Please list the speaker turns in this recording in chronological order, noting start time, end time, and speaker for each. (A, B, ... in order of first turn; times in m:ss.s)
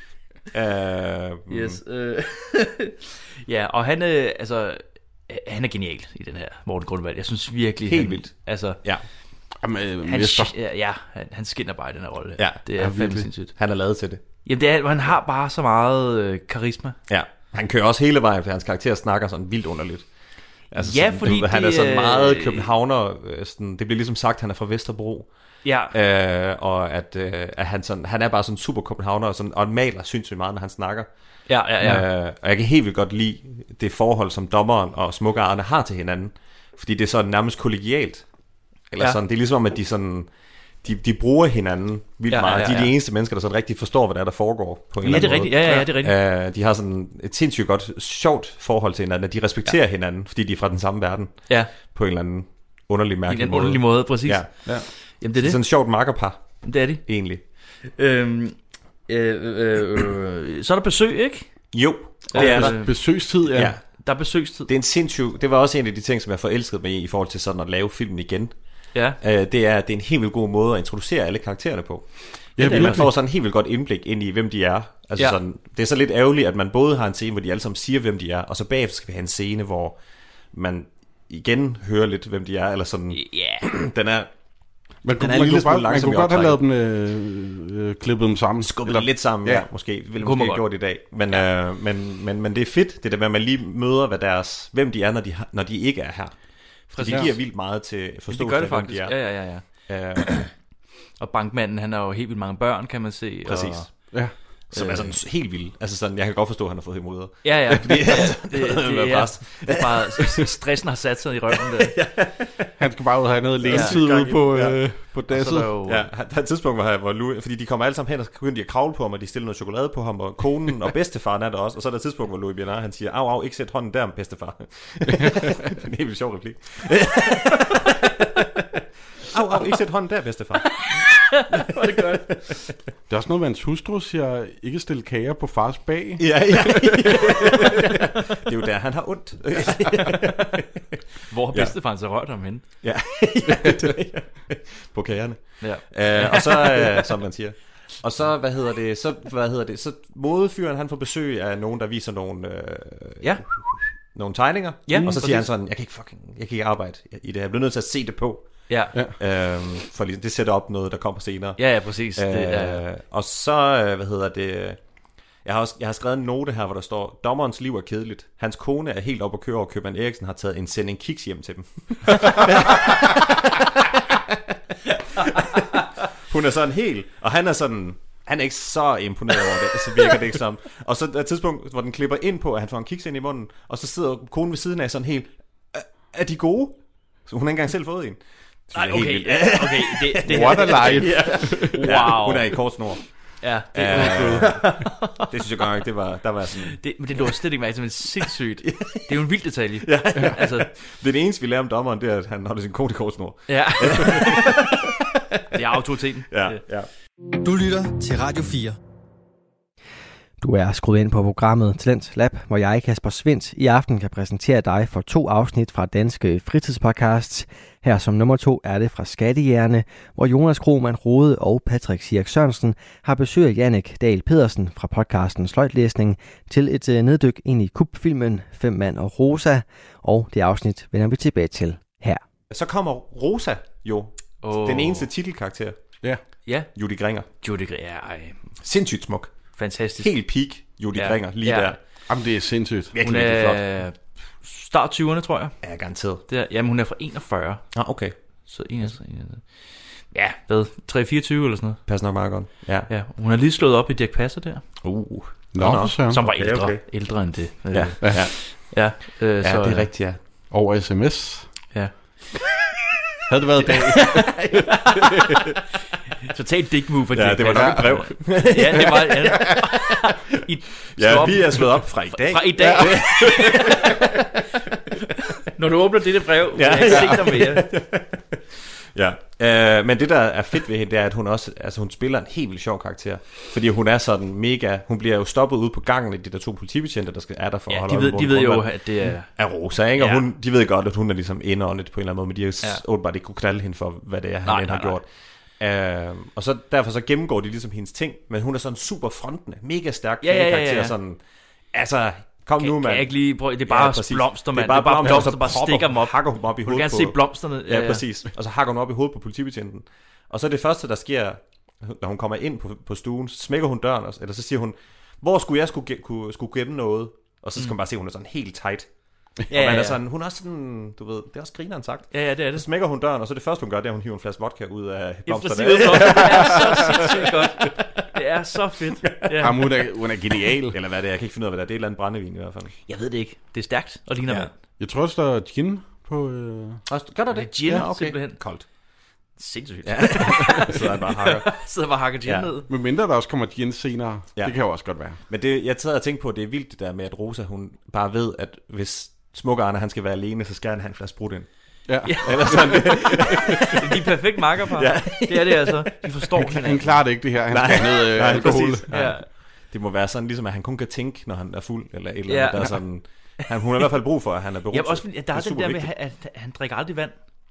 0:00.5-0:01.8 A
0:01.5-0:08.8 B
0:07.8-0:09.0 A
0:09.6-0:10.5 C
0:10.0-0:13.5 B
0:12.8-0:13.3 C
0:13.6-0:14.2 A
0:14.4-0:17.0 B
0:17.1-0:20.0 A
0:20.7-0:25.3 A
0:20.8-0:22.7 B
0:25.6-0:25.9 B
0:25.9-0:31.1 A
0:31.5-0:32.0 B
0:31.8-0:38.2 A
0:38.9-0:40.3 A
0:40.8-0:54.7 A
0:42.3-0:42.9 B
0:45.0-0:45.8 C
0:45.0-0:46.2 B
0:53.3-0:55.6 B
0:55.3-0:57.4 A
0:56.6-0:57.0 B
0:57.9-0:58.5 B
0:59.1-1:01.4 B
1:01.7-1:02.8 A
1:02.3-1:02.9 B
1:02.3-1:03.8 C
1:03.5-1:03.9 A
1:04.0-1:04.7 B
1:04.6-1:08.5 A
1:09.2-1:20.0 A
1:12.6-1:13.1 C
1:12.6-1:13.1 B
1:20.5-1:24.3 A
1:23.1-1:23.6 B
1:25.0-1:29.7 C
1:25.1-1:26.6 A
1:28.6-1:36.3 A
1:30.2-1:30.7 B
1:36.9-1:40.5 A
1:36.9-1:37.4 B
1:38.3-1:39.7 B
1:41.2-1:44.1 B
1:43.4-1:43.9 A
1:44.7-1:50.5 A
1:44.7-1:45.1 B
1:47.4-1:52.0 B
1:51.7-1:52.7 A
1:52.8-1:55.8 C
1:53.6-1:54.8 A
1:53.7-1:54.2 B
1:55.3-1:56.1 B
1:55.8-2:08.4 A
2:09.2-2:10.8 A
2:10.8-2:12.5 B
2:11.9-2:12.2 A
2:13.1-2:17.8 C
2:16.2-2:20.6 A
2:21.3-2:22.6 B
2:22.8-2:38.5 A
2:25.6-2:27.1 B
2:34.9-2:35.5 B
2:38.7-2:38.9 B
2:39.2-2:41.6 A
2:41.6-2:42.8 B
2:42.2-2:44.8 A
2:45.4-2:53.6 A
2:55.2-3:13.0 A
3:08.7-3:12.6 B
3:10.3-3:11.9 C
3:13.4-3:15.2 B
3:13.7-3:17.3 A
3:13.9-3:14.7 C
3:16.7-3:20.7 B
3:18.6-3:19.1 A
3:19.8-3:24.9 A
3:23.5-3:24.6 B
3:25.5-3:26.6 B
3:26.3-3:26.9 A
3:27.4-3:28.8 D
3:30.4-3:52.2 D
3:52.5-3:55.8 A
3:54.4-3:55.1 B
3:56.4-3:56.7 B
3:56.7-3:57.3 A
3:57.4-3:58.4 B
3:58.6-3:59.3 A
3:59.6-4:00.1 B
4:00.0-4:01.8 A
4:00.9-4:01.7 B
4:02.1-4:02.9 C
4:02.9-4:03.6 A
4:03.0-4:05.6 B
4:05.6-4:06.2 A
4:06.3-4:07.6 B
4:07.7-4:08.1 A
4:08.5-4:09.4 B
4:10.1-4:11.8 B
4:11.9-4:12.9 A
4:12.9-4:14.6 B
4:14.8-4:16.8 A
4:15.5-4:16.2 C
4:16.1-4:19.9 B
4:17.7-4:18.3 A
4:18.0-4:18.3 C
4:19.4-4:20.2 A
4:20.5-4:21.5 C
4:21.7-4:22.2 B
4:23.3-4:25.5 C
4:23.8-4:25.4 B
4:26.3-4:34.2 B
4:27.1-4:29.5 A
4:27.4-4:28.5 C
4:29.2-4:29.5 C
4:31.0-4:34.0 A
4:32.6-4:33.0 C
4:35.4-4:37.7 B
4:36.5-4:38.4 A
4:36.9-4:37.3 C
4:38.9-4:48.8 A
4:47.7-4:49.4 B
4:49.3-4:55.1 A
4:50.0-4:50.2 B
4:54.4-4:55.0 B
4:55.6-5:01.2 A
5:00.2-5:00.9 B
5:01.7-5:03.1 A
5:02.6-5:08.0 B
5:03.6-5:18.9 A
5:19.5-5:27.7 A
5:19.5-5:20.0 B
5:22.1-5:22.6 B
5:25.3-5:29.7 B
5:29.3-5:29.6 A
5:29.4-5:30.8 C
5:30.7-5:32.7 A
5:32.9-5:34.5 B
5:34.8-5:36.8 C
5:36.9-5:38.6 A
5:37.3-5:38.4 B
5:39.4-5:42.7 B
5:39.8-5:41.6 A
5:42.7-5:45.2 C
5:45.2-5:51.5 A
5:51.9-5:53.7 C
5:52.0-5:57.0 B
5:52.1-5:53.7 A
5:54.7-5:56.5 A
5:56.5-5:58.9 C
5:57.5-6:05.9 A
5:58.3-5:59.2 B
6:02.3-6:02.8 B
6:04.7-6:07.1 B